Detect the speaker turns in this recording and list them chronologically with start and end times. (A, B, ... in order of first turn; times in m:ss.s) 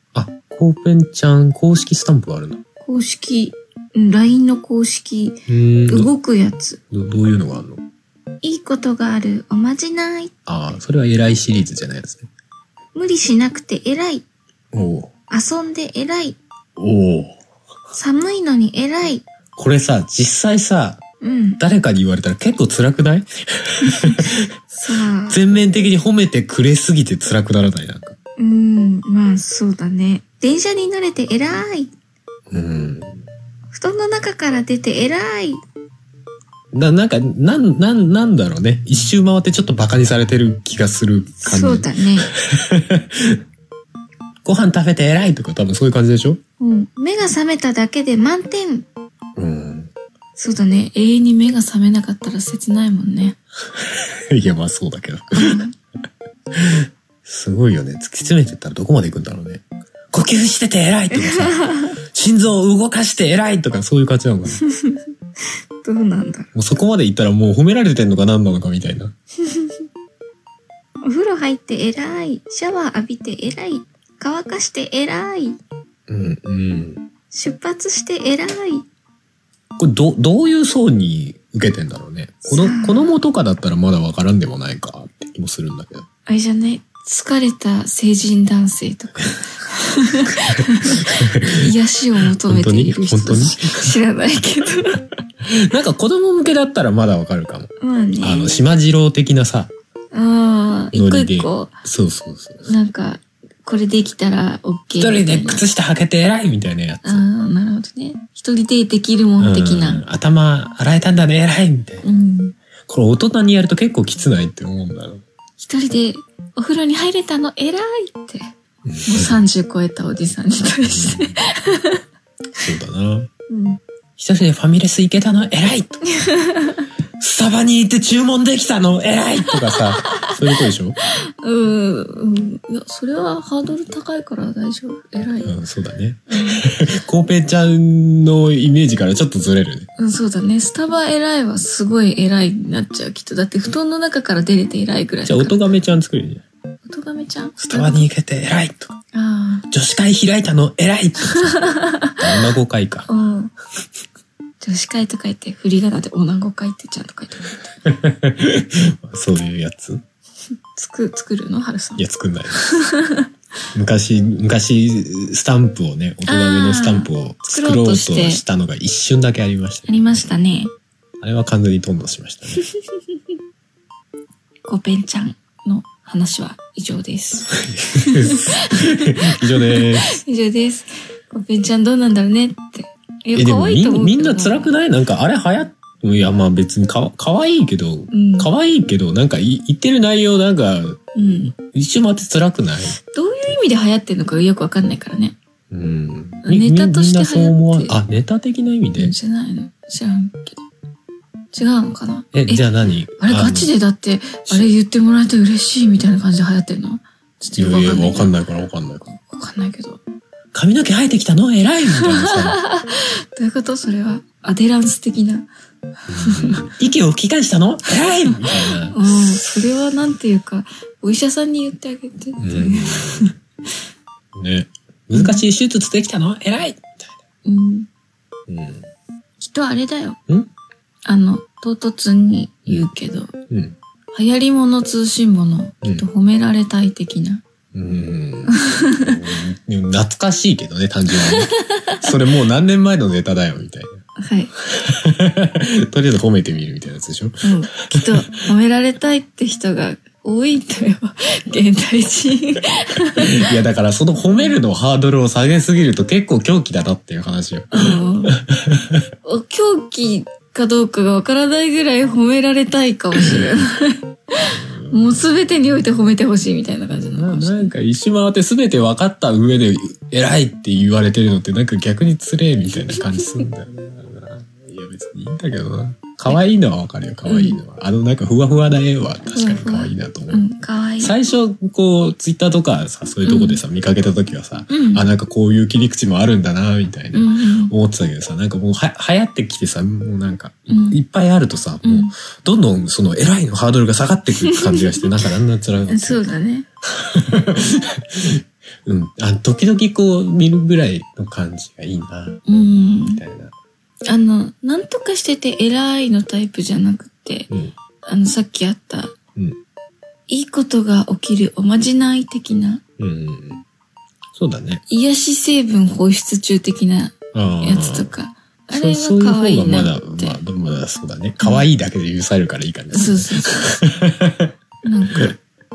0:00.1-0:02.6 A
0:02.8-0:06.8 B
0:05.5-0:06.1 A
0:06.9-0:07.8 A
0:08.4-0:10.3 B
0:10.5-0:12.3 A
0:12.9-0:14.2 B
0:14.7-0:15.1 A
0:15.3-0:16.4 B
0:16.8-0:17.4 A
0:17.9-0:19.2 B
0:19.6-0:21.0 A
0:21.2-0:21.6 B
0:21.6-0:24.5 A
0:23.8-0:25.4 B
0:25.3-0:28.1 A
0:28.4-0:31.9 B
0:32.5-0:33.2 A
0:33.7-0:35.6 B
0:36.7-0:43.4 A
0:41.4-0:42.3 B
0:44.4-0:46.4 A
0:46.6-0:48.8 B
0:49.4-0:49.9 A
0:50.4-0:53.4 B
0:53.7-0:55.6 A
0:55.3-0:55.7 B
0:56.5-1:04.6 A
1:01.1-1:01.9 B
1:04.6-1:05.0 B
1:05.8-1:06.5 B
1:06.5-1:09.1 A
1:09.4-1:09.7 B
1:11.0-1:15.6 B
1:16.1-1:17.0 A
1:17.3-1:18.8 B
1:19.8-1:26.1 A
1:22.4-1:23.1 B
1:26.2-1:35.0 B
1:30.5-1:31.7 A
1:32.4-1:34.0 A
1:35.4-1:39.7 A
1:37.8-1:38.6 B
1:40.1-1:41.7 B
1:40.9-1:42.7 A
1:42.6-1:45.6 B
1:45.0-1:47.2 A
1:47.0-1:50.0 B
1:49.4-1:52.0 A
1:52.0-1:52.5 B
1:52.9-1:55.2 A
1:55.6-1:58.4 B
1:58.8-1:59.4 A
1:59.0-2:02.0 B
2:00.8-2:01.4 A
2:02.6-2:03.3 A
2:03.5-2:03.8 B
2:04.2-2:06.0 A
2:06.1-2:06.8 B
2:07.2-2:11.0 A
2:09.6-2:10.3 B
2:11.1-2:15.5 B
2:15.4-2:19.9 A
2:16.3-2:16.6 B
2:20.0-2:25.6 B
2:25.2-2:26.4 A
2:26.8-2:28.1 B
2:27.6-2:29.0 A
2:29.1-2:29.7 B
2:29.7-2:33.1 A
2:31.3-2:32.2 B
2:33.1-2:33.5 B
2:34.6-2:37.6 B
2:37.8-2:40.0 A
2:40.8-2:42.0 B
2:42.0-2:42.6 A
2:42.5-2:43.3 B
2:43.7-2:50.2 A
2:46.3-2:48.4 B
2:49.9-2:50.7 B
2:51.2-2:52.6 A
2:54.7-2:59.1 B
2:57.7-3:00.2 A
2:59.7-3:04.7 B
3:03.3-3:11.0 A
3:08.1-3:08.5 B
3:11.1-3:11.6 B
3:11.7-3:13.0 A
3:13.0-3:15.4 B
3:15.7-3:19.1 A
3:16.4-3:18.0 B
3:19.0-3:20.6 B
3:21.5-3:22.6 B
3:22.3-3:23.7 A
3:23.2-3:28.3 B
3:27.6-3:29.1 A
3:29.2-3:30.0 B
3:30.5-3:32.6 A
3:32.0-3:35.5 B
3:36.1-3:39.5 A
3:36.2-3:36.7 B
3:38.9-3:43.3 B
3:42.4-3:43.4 A
3:44.3-3:47.2 A
3:45.1-3:45.4 B
3:47.4-3:47.9 B
3:48.5-3:48.9 A
3:49.4-3:50.2 B
3:51.0-3:53.3 B
3:53.5-3:53.8 A
3:54.1-3:57.4 B
3:57.7-4:04.0 A
3:58.5-3:59.2 B
4:01.2-4:02.1 B
4:04.2-4:04.5 B
4:04.6-4:08.3 A
4:07.4-4:13.4 B
4:13.2-4:19.0 A
4:17.7-4:18.3 B
4:19.2-4:27.7 B
4:23.2-4:23.6 A
4:24.5-4:25.5 A
4:26.9-4:40.4 A
4:32.9-4:33.4 B
4:37.3-4:37.6 B
4:39.3-4:41.1 B
4:41.0-4:56.2 A
4:43.2-4:43.6 B
4:44.7-4:45.0 B
4:47.1-4:47.7 B
4:50.7-4:51.0 B
4:51.8-4:52.1 B
4:54.3-4:55.1 B
4:55.9-4:56.6 B
4:56.8-5:02.5 A
5:02.5-5:03.2 B
5:03.0-5:03.5 A
5:04.1-5:07.5 B
5:08.0-5:09.1 B
5:10.3-5:12.8 B
5:13.0-5:13.6 A
5:14.3-5:14.8 A
5:14.9-5:20.4 B
5:17.3-5:18.1 A
5:18.7-5:24.5 A
5:21.4-5:21.6 B
5:22.9-5:23.7 B
5:24.8-5:25.4 B